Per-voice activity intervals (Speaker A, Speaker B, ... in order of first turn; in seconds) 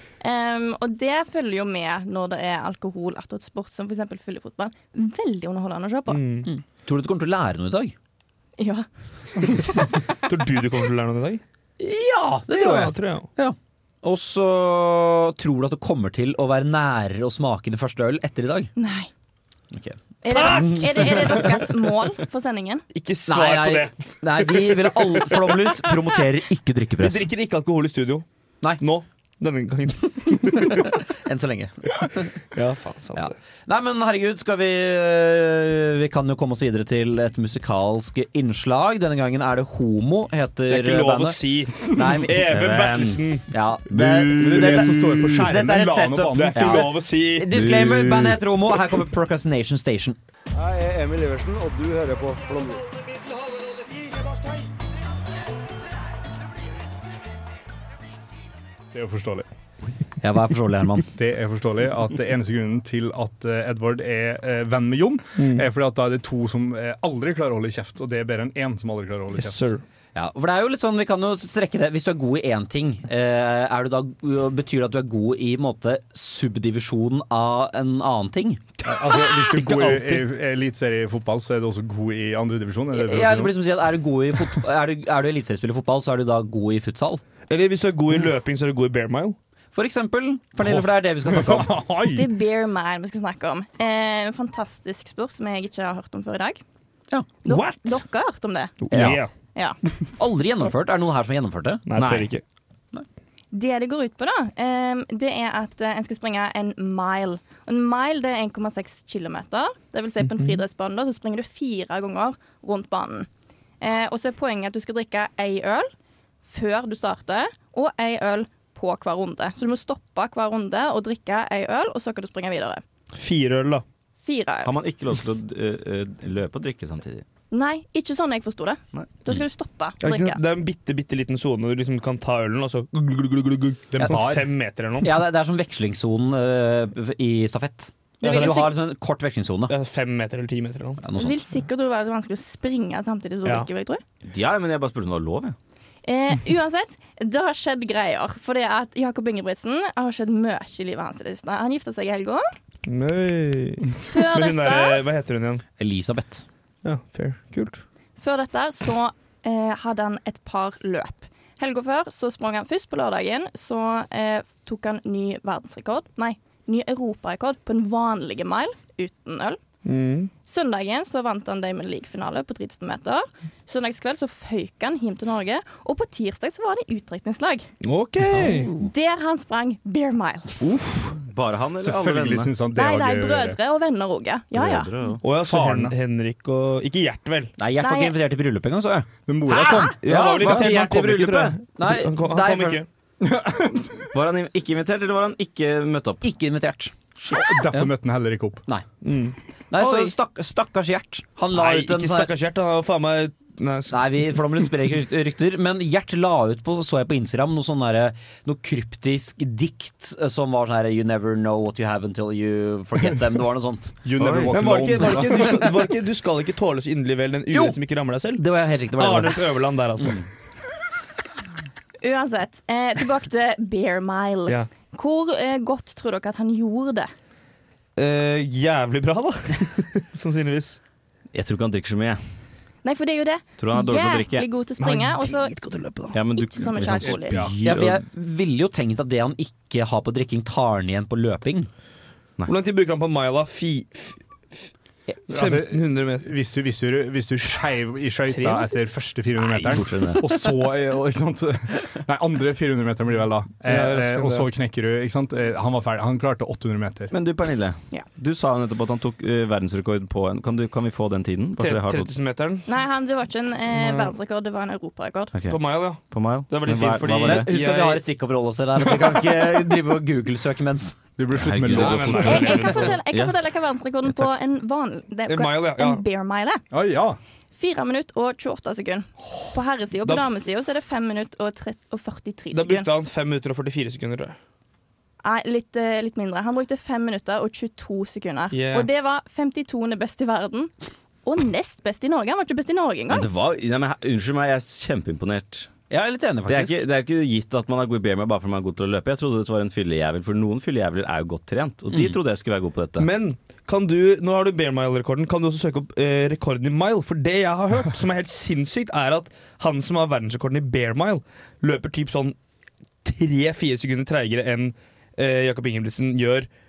Speaker A: 0.2-6.2, 8.6-8.9, 18.8-19.1, 20.2-22.8, 92.1-96.6, 97.4-98.8, 103.5-113.3, 113.8-115.9, 116.5-122.8, 124.2-124.7, 127.5-130.4, 138.2-138.7, 141.2-144.0, 146.0-152.4, 154.0-155.0, 158.2-169.6, 170.4-177.7, 178.8-180.5, 182.7-184.9, 187.8-188.2, 189.5-189.9, 222.0-227.1, 232.8-235.5, 236.3-237.4, 262.7-265.3, 272.2-276.6, 277.5-282.9, 285.2-290.7, 291.2-293.3
Speaker B: 6.1-6.5, 10.2-11.4, 12.5-13.3, 20.5-21.3, 22.9-26.1, 27.0-28.2, 28.8-31.0, 32.5-33.3, 40.7-43.5, 46.3-47.5, 65.4-65.7, 69.3-69.8, 79.1-80.3, 87.5-89.4, 97.5-97.8, 98.8-99.3, 101.9-102.4, 110.2-110.6, 123.1-123.8, 130.0-135.1, 138.2-138.7, 139.7-141.0, 152.8-155.6, 156.8-157.8, 169.8-170.3, 177.8-178.7, 185.2-187.5, 190.0-192.9, 199.0-200.1, 201.5-204.7, 214.5-218.4, 218.9-220.2, 228.0-230.8, 242.5-244.7, 245.3-246.3, 248.3-248.7, 253.6-254.5, 261.6-262.6, 263.7-264.1, 265.5-268.0, 271.7-272.9, 275.3-276.0, 282.5-284.4, 288.5-288.9, 303.0-312.3, 313.0-316.5
Speaker C: 6.5-7.9, 11.8-18.7, 19.7-21.5, 23.3-27.3, 30.4-32.3, 33.1-42.4, 43.5-50.2, 60.2-61.1, 70.1-78.6, 82.9-87.2, 89.7-91.7, 98.9-99.2, 100.2-102.0, 135.0-139.7, 141.0-141.4, 155.8-156.4, 178.3-178.9, 187.6-189.1, 190.1-190.6, 191.8-192.8, 196.2-197.9, 199.7-202.3, 203.9-214.0, 217.5-217.8, 218.3-219.4, 220.0-220.2, 237.3-241.7, 267.2-271.0, 295.9-296.8, 301.9-302.2
Speaker D: 42.5-43.2, 43.9-45.5, 47.5-48.4, 102.0-102.3, 124.6-127.2, 128.9-129.4, 144.2-145.5, 180.7-182.5, 184.5-185.2, 190.4-191.6, 194.1-196.2, 214.2-214.9, 231.3-232.2, 233.6-234.4, 236.1-238.0, 249.5-250.2, 257.1-262.1, 265.3-267.5, 271.4-273.3, 293.1-295.7, 296.5-303.1
Speaker E: 44.3-47.0, 58.9-59.5, 61.1-69.7, 78.8-83.5, 90.6-92.3, 98.9-99.2, 133.9-134.4, 181.8-183.6, 185.4-185.9, 189.3-190.6, 193.2-194.1, 197.3-198.6, 214.0-215.8, 237.0-237.5, 245.3-257.1, 271.2-272.9, 276.7-277.2
Speaker F: 50.5-53.0